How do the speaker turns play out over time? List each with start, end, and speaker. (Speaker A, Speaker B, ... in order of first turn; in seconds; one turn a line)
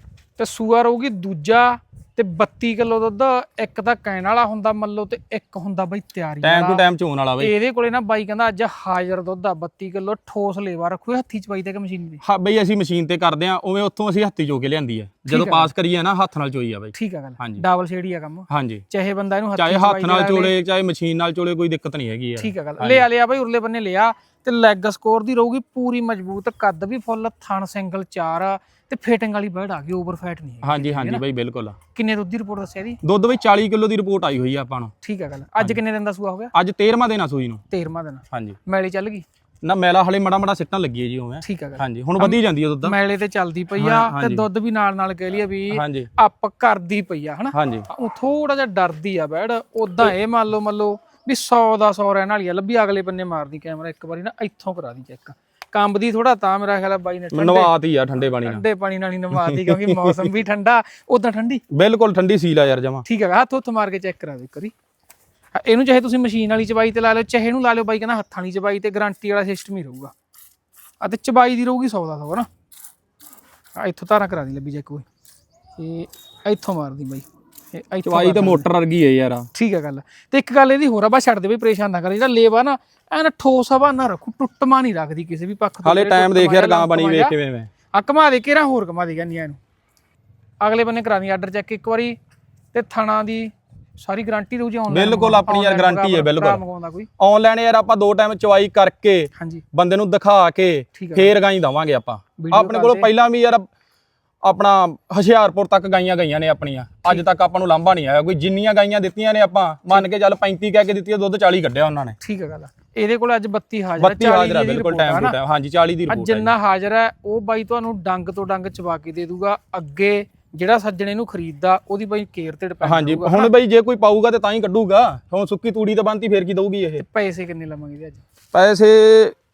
Speaker A: 0.4-6.9
Speaker B: 6.4-7.5
Speaker A: 7.4-12.2
Speaker B: 12.2-17.6
Speaker A: 15.3-15.7
Speaker A: 16.9-20.5
Speaker B: 18.5-18.8
Speaker B: 19.6-23.1
Speaker A: 22.4-31.2
Speaker B: 30.6-31.8
Speaker A: 31.9-33.0
Speaker B: 33.0-34.9
Speaker A: 35.0-36.5
Speaker B: 36.5-37.6
Speaker A: 37.7-39.2
Speaker B: 38.3-38.6
Speaker B: 39.6-43.0
Speaker A: 41.4-61.6
Speaker B: 43.8-44.5
Speaker B: 45.7-46.1
Speaker B: 47.5-47.9
Speaker B: 57.3-58.6
Speaker B: 59.3-60.3
Speaker B: 61.7-63.0
Speaker A: 63.1-64.7
Speaker A: 65.5-70.1
Speaker A: 71.0-72.5
Speaker A: 73.8-75.0
Speaker A: 75.8-78.7
Speaker B: 78.0-79.5
Speaker A: 79.5-87.3
Speaker B: 85.8-87.7
Speaker A: 87.9-89.6
Speaker A: 90.6-92.2
Speaker A: 92.7-97.1
Speaker B: 94.9-96.6
Speaker B: 97.2-103.7
Speaker A: 99.4-99.6
Speaker A: 101.0-101.3
Speaker A: 102.4-103.1
Speaker B: 104.4-112.2
Speaker A: 112.2-115.4
Speaker B: 114.0-116.5
Speaker A: 116.1-123.5
Speaker B: 122.8-127.0
Speaker A: 127.0-128.2
Speaker B: 128.5-129.3